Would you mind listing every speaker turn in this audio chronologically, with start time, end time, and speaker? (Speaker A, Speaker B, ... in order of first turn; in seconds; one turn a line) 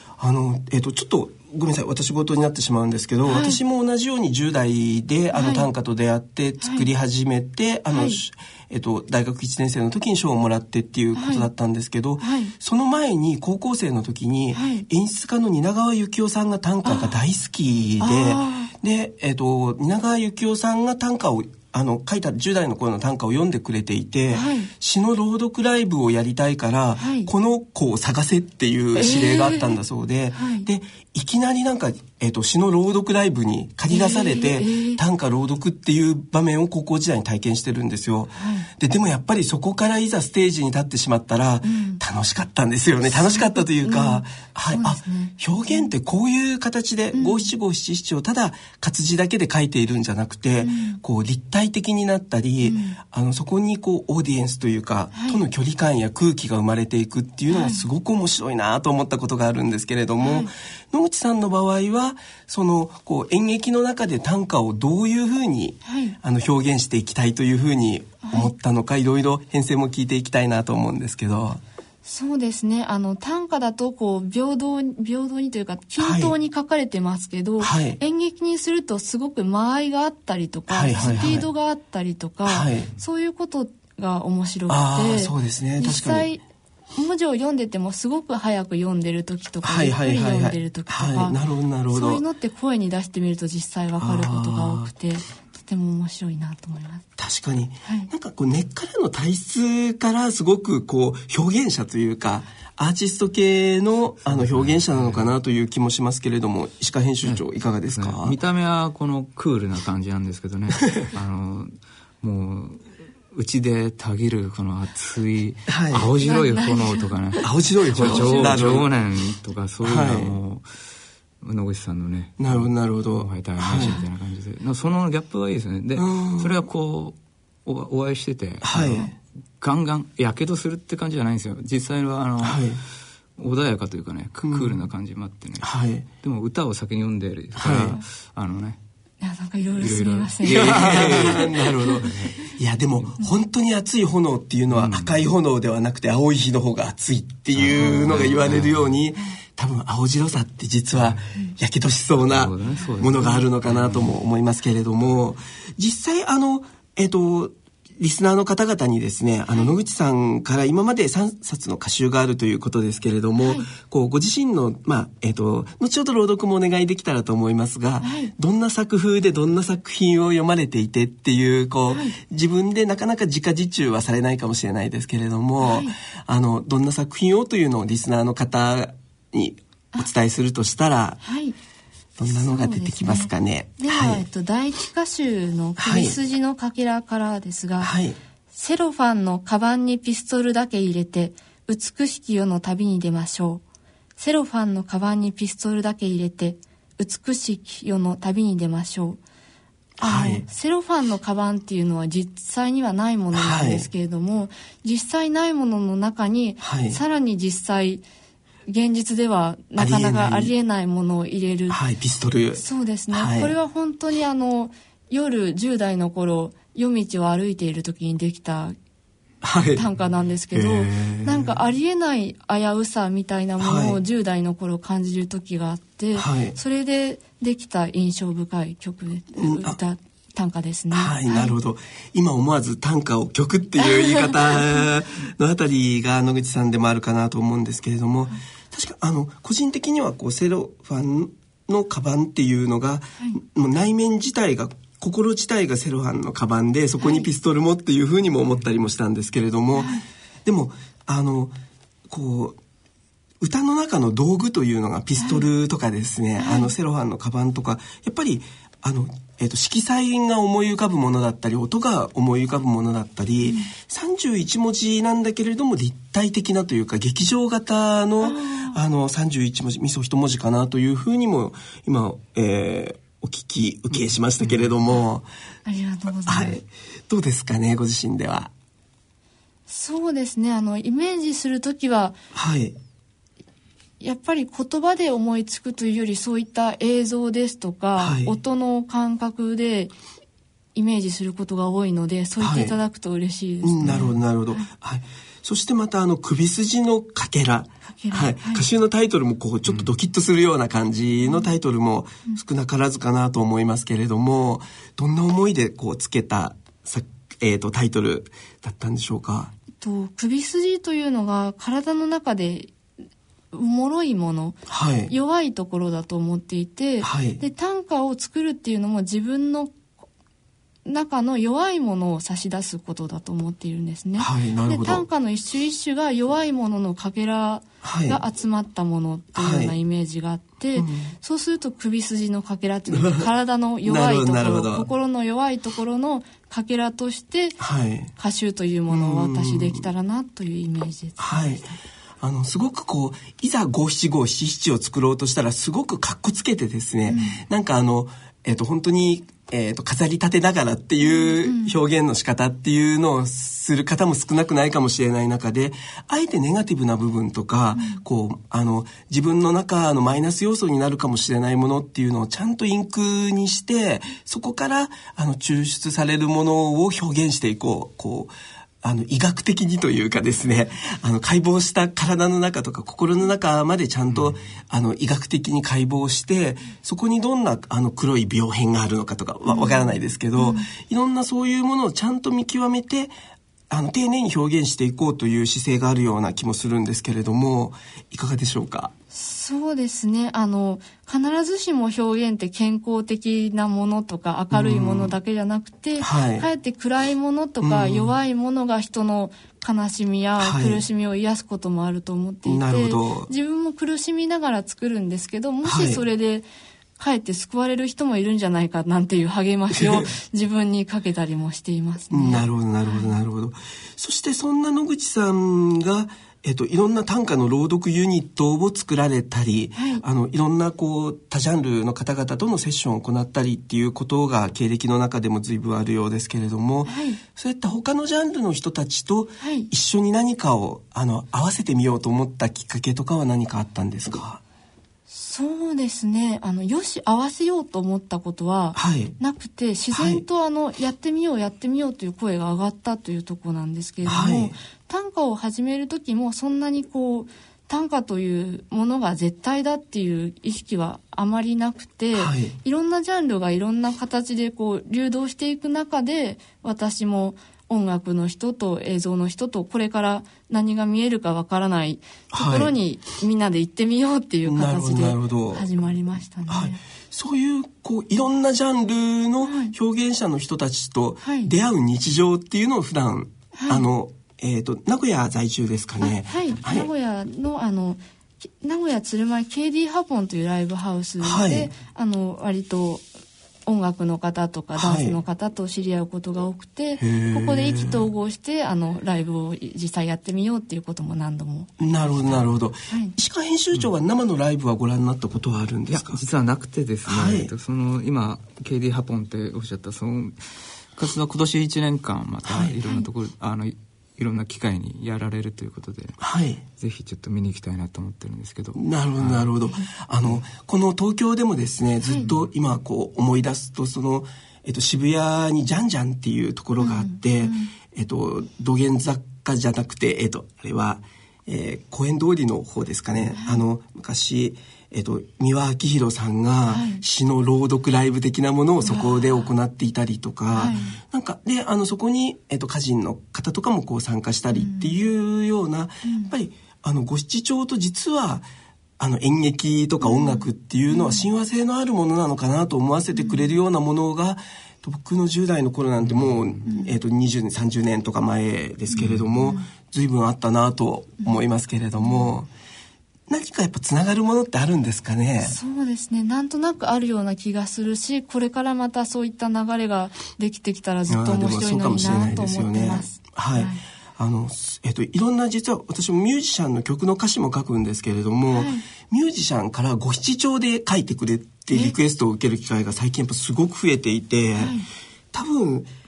Speaker A: 0.2-71.6
Speaker B: 3.3-3.6
Speaker B: 5.3-5.7
Speaker B: 6.6-6.9
Speaker B: 7.9-8.2
Speaker B: 11.2-11.5
Speaker B: 12.2-12.5
Speaker B: 14.5-14.9
Speaker B: 16.9-17.2
Speaker B: 18.0-18.7
Speaker B: 24.3-24.7
Speaker B: 27.0-27.3
Speaker B: 28.9-29.8
Speaker B: 30.3-30.7
Speaker B: 33.9-35.0
Speaker B: 38.4-38.7
Speaker B: 41.6-42.0
Speaker B: 43.1-45.9
Speaker B: 47.1-47.5
Speaker B: 50.6-51.0
Speaker B: 52.6-53.0
Speaker B: 55.1-55.4
Speaker B: 57.5-57.9
Speaker B: 60.2-60.5
Speaker B: 65.8-66.2
Speaker B: 68.2-68.5
Speaker B: 72.0-86.4
Speaker A: 76.0-76.3
Speaker A: 77.6-78.0
Speaker A: 80.7-81.5
Speaker A: 82.5-82.9
Speaker A: 84.7-86.3
Speaker B: 87.0-91.4
Speaker A: 89.6-92.2
Speaker B: 91.9-97.1
Speaker A: 94.0-94.9
Speaker A: 97.2-108.4
Speaker B: 97.8-98.1
Speaker C: 104.3-105.3
Speaker C: 107.2-120.7
Speaker A: 115.7-116.1
Speaker B: 116.2-117.4
Speaker A: 117.4-118.9
Speaker B: 118.0-118.8
Speaker A: 119.8-120.4
Speaker C: 121.4-132.8
Speaker A: 122.4-124.0
Speaker A: 126.0-126.6
Speaker A: 128.6-129.1
Speaker A: 132.4-132.8
Speaker C: 133.4-138.8
Speaker A: 134.4-134.8
Speaker A: 135.6-136.1
Speaker A: 137.6-138.0
Speaker B: 139.2-142.0
Speaker C: 139.8-143.2
Speaker A: 140.4-181.2
Speaker C: 144.7-145.2
Speaker C: 147.5-149.0
Speaker C: 150.9-151.2
Speaker C: 152.2-154.2
Speaker B: 152.8-153.2
Speaker B: 163.4-163.7
Speaker B: 168.0-168.3
Speaker B: 171.9-172.2
Speaker B: 175.6-176.0
Speaker B: 181.2-181.6
Speaker A: 182.2-184.2
Speaker B: 182.3-187.9
Speaker A: 185.8-186.2
Speaker A: 187.8-188.2
Speaker B: 188.5-193.6
Speaker B: 194.2-199.2
Speaker A: 200.0-200.4
Speaker B: 200.0-208.1
Speaker A: 203.3-203.9
Speaker A: 206.6-207.0
Speaker B: 208.7-211.8
Speaker A: 209.8-210.5
Speaker A: 211.7-213.5
Speaker B: 212.6-218.8
Speaker A: 219.4-219.8
Speaker B: 219.7-231.6
Speaker A: 220.5-221.6
Speaker A: 223.6-224.0
Speaker A: 226.2-226.6
Speaker A: 229.4-229.8
Speaker A: 230.9-251.6
Speaker B: 233.8-234.7
Speaker B: 247.0-247.3
Speaker B: 249.8-250.1
Speaker A: 252.1-252.6
Speaker A: 253.4-275.3
Speaker B: 255.2-255.4
Speaker B: 256.4-256.7
Speaker B: 263.4-263.7
Speaker B: 268.2-268.8
Speaker C: 274.4-274.7
Speaker B: 275.7-276.6
Speaker A: 276.3-278.5
Speaker B: 279.7-282.2
Speaker A: 282.3-282.8
Speaker B: 284.0-289.9
Speaker A: 288.0-288.4
Speaker B: 290.8-294.7
Speaker A: 292.4-292.8
Speaker A: 293.6-309.5
Speaker C: 293.8-294.1
Speaker B: 297.9-298.7
Speaker B: 309.8-312.7
Speaker B: 313.5-319.7
Speaker A: 314.7-315.1
Speaker A: 317.0-317.4
Speaker B: 320.9-337.6
Speaker A: 324.2-325.1
Speaker A: 327.8-328.2
Speaker A: 329.4-329.8
Speaker A: 330.8-331.1
Speaker A: 332.9-333.3
Speaker A: 333.8-334.9
Speaker A: 337.6-338.1
Speaker B: 338.2-341.8
Speaker A: 338.9-339.9
Speaker A: 341.2-341.6
Speaker A: 342.2-383.1
Speaker B: 347.1-347.4
Speaker B: 351.0-351.8
Speaker B: 357.8-358.0
Speaker C: 374.1-374.4
Speaker B: 379.5-380.7
Speaker A: 383.7-388.9
Speaker B: 389.1-413.1
Speaker A: 394.5-395.1
Speaker A: 396.0-396.5
Speaker A: 397.6-398.1
Speaker A: 400.4-400.8
Speaker A: 402.4-403.3
Speaker A: 405.6-406.0
Speaker A: 409.7-410.1
Speaker A: 412.1-434.4
Speaker B: 419.8-420.0
Speaker B: 426.9-427.2
Speaker B: 429.4-429.7
Speaker B: 435.1-466.8
Speaker A: 438.8-439.1
Speaker A: 439.9-440.2
Speaker A: 444.1-444.6
Speaker A: 452.1-452.6
Speaker A: 462.3-462.8
Speaker A: 464.4-465.7
Speaker A: 466.5-476.9
Speaker B: 469.4-469.8
Speaker B: 471.2-471.5
Speaker B: 473.5-473.9
Speaker B: 476.0-483.1
Speaker A: 481.2-481.7
Speaker B: 483.7-493.1
Speaker A: 484.8-485.2
Speaker A: 487.0-488.1
Speaker A: 491.8-496.2
Speaker C: 495.9-506.2
Speaker A: 497.1-497.5
Speaker A: 502.4-502.8
Speaker A: 506.2-506.6
Speaker C: 506.8-509.5
Speaker A: 508.8-538.5
Speaker B: 516.8-517.7
Speaker B: 523.4-523.6
Speaker B: 526.7-527.0
Speaker B: 528.8-529.5
Speaker B: 530.5-531.0
Speaker B: 534.5-535.0
Speaker B: 536.0-536.3
Speaker A: 539.0-552.5
Speaker B: 540.0-541.3
Speaker B: 543.1-543.5
Speaker C: 546.0-546.6
Speaker B: 546.7-547.0
Speaker C: 548.9-549.3
Speaker B: 549.3-549.7
Speaker B: 552.0-552.3
Speaker A: 553.3-555.6
Speaker B: 555.4-563.8
Speaker A: 561.1-574.8
Speaker B: 568.5-568.9
Speaker B: 574.6-574.9
Speaker A: 575.3-575.9